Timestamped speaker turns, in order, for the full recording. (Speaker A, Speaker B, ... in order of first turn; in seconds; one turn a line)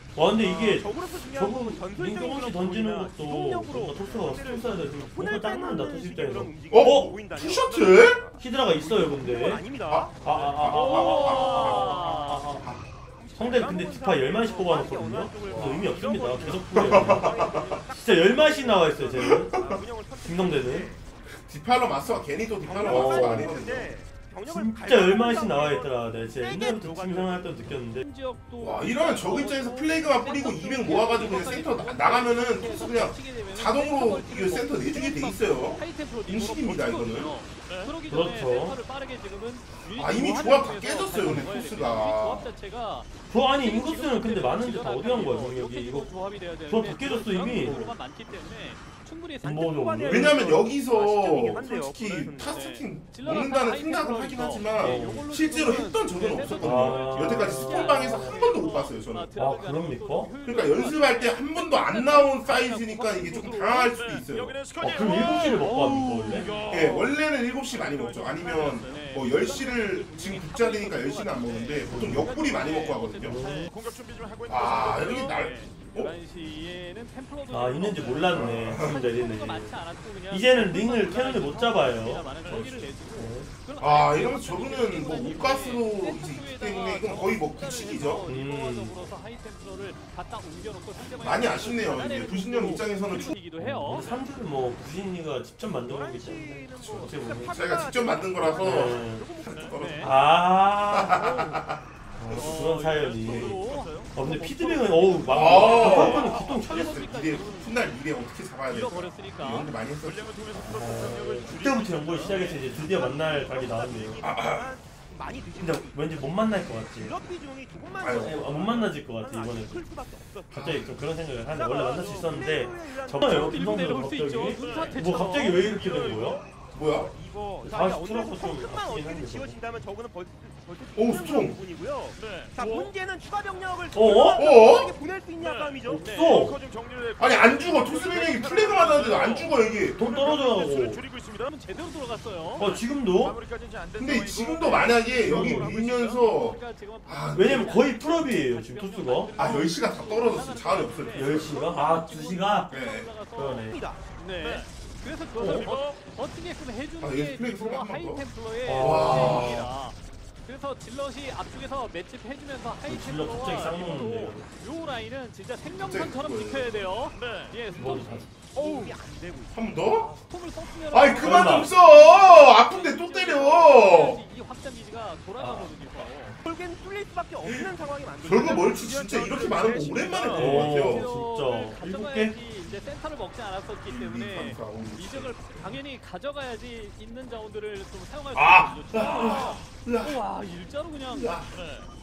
Speaker A: 0.1-7.1
Speaker B: 0.4-10.4
Speaker C: 6.7-8.2
Speaker A: 8.4-9.6
Speaker C: 9.9-12.0
Speaker A: 10.2-12.7
Speaker D: 10.7-12.4
Speaker B: 13.2-21.0
Speaker A: 13.3-19.5
Speaker C: 15.5-15.8
Speaker C: 16.7-17.8
Speaker C: 19.2-19.8
Speaker A: 20.2-20.9
Speaker C: 21.4-23.9
Speaker B: 22.6-27.6
Speaker A: 22.8-23.5
Speaker A: 24.4-28.1
Speaker D: 28.0-49.7
Speaker C: 28.6-37.3
Speaker A: 38.1-38.8
Speaker C: 40.0-42.5
Speaker A: 41.2-41.5
Speaker A: 43.3-46.1
Speaker A: 46.7-47.9
Speaker C: 47.6-47.9
Speaker A: 49.4-50.6
Speaker B: 49.6-52.5
Speaker C: 50.0-59.3
Speaker D: 52.5-63.9
Speaker A: 54.8-55.3
Speaker A: 56.6-58.5
Speaker A: 59.3-60.3
Speaker C: 60.4-64.6
Speaker E: 64.1-67.1
Speaker A: 64.8-66.5
Speaker C: 66.4-73.4
Speaker D: 68.1-73.7
Speaker A: 71.9-72.3
Speaker A: 73.2-73.7
Speaker E: 73.7-75.3
Speaker C: 74.5-76.2
Speaker D: 75.2-94.1
Speaker A: 77.5-82.3
Speaker C: 78.3-79.0
Speaker C: 82.5-82.9
Speaker A: 83.1-83.5
Speaker C: 83.8-88.3
Speaker A: 88.2-89.1
Speaker C: 91.2-93.4
Speaker A: 93.6-97.6
Speaker B: 95.9-99.7
Speaker C: 96.8-100.2
Speaker A: 98.5-99.2
Speaker D: 99.7-100.1
Speaker A: 100.0-101.5
Speaker C: 100.9-101.8
Speaker D: 101.1-101.5
Speaker A: 102.2-107.0
Speaker D: 102.3-107.7
Speaker E: 103.3-103.7
Speaker C: 105.3-110.3
Speaker B: 105.5-106.1
Speaker D: 108.7-109.7
Speaker E: 110.0-112.8
Speaker A: 110.5-114.2
Speaker B: 112.8-116.3
Speaker C: 114.2-114.7
Speaker A: 115.6-117.2
Speaker B: 116.9-120.6
Speaker C: 118.0-118.4
Speaker A: 118.0-119.8
Speaker A: 120.5-126.4
Speaker C: 120.5-120.9
Speaker B: 121.5-123.7
Speaker D: 123.3-125.7
Speaker B: 124.6-125.2
Speaker C: 126.7-127.1
Speaker B: 127.0-136.2
Speaker A: 127.6-129.6
Speaker C: 130.9-131.6
Speaker E: 132.2-132.8
Speaker A: 133.9-134.5
Speaker C: 134.3-134.9
Speaker E: 135.4-141.5
Speaker A: 135.8-136.6
Speaker C: 137.2-140.0
Speaker A: 139.9-141.0
Speaker D: 141.5-142.7
Speaker A: 142.6-143.4
Speaker E: 143.2-145.1
Speaker C: 144.0-147.8
Speaker A: 145.2-145.7
Speaker D: 145.3-168.9
Speaker A: 147.3-149.3
Speaker C: 149.3-151.6
Speaker A: 151.1-152.7
Speaker C: 152.7-153.1
Speaker A: 153.3-153.8
Speaker B: 153.7-154.0
Speaker A: 155.4-155.7
Speaker E: 155.6-155.9
Speaker C: 157.0-159.7
Speaker A: 158.6-159.7
Speaker A: 162.8-164.5
Speaker C: 165.6-167.0
Speaker E: 167.2-167.5
Speaker A: 167.7-168.3
Speaker B: 168.5-169.6
Speaker C: 169.5-170.1
Speaker D: 169.8-176.3
Speaker C: 170.9-174.2
Speaker A: 171.1-171.7
Speaker A: 175.4-175.8
Speaker B: 176.4-180.4
Speaker C: 178.2-181.1
Speaker D: 180.2-191.3
Speaker A: 180.3-182.3
Speaker C: 183.8-185.7
Speaker C: 188.3-190.2
Speaker C: 191.1-191.5
Speaker E: 191.5-191.8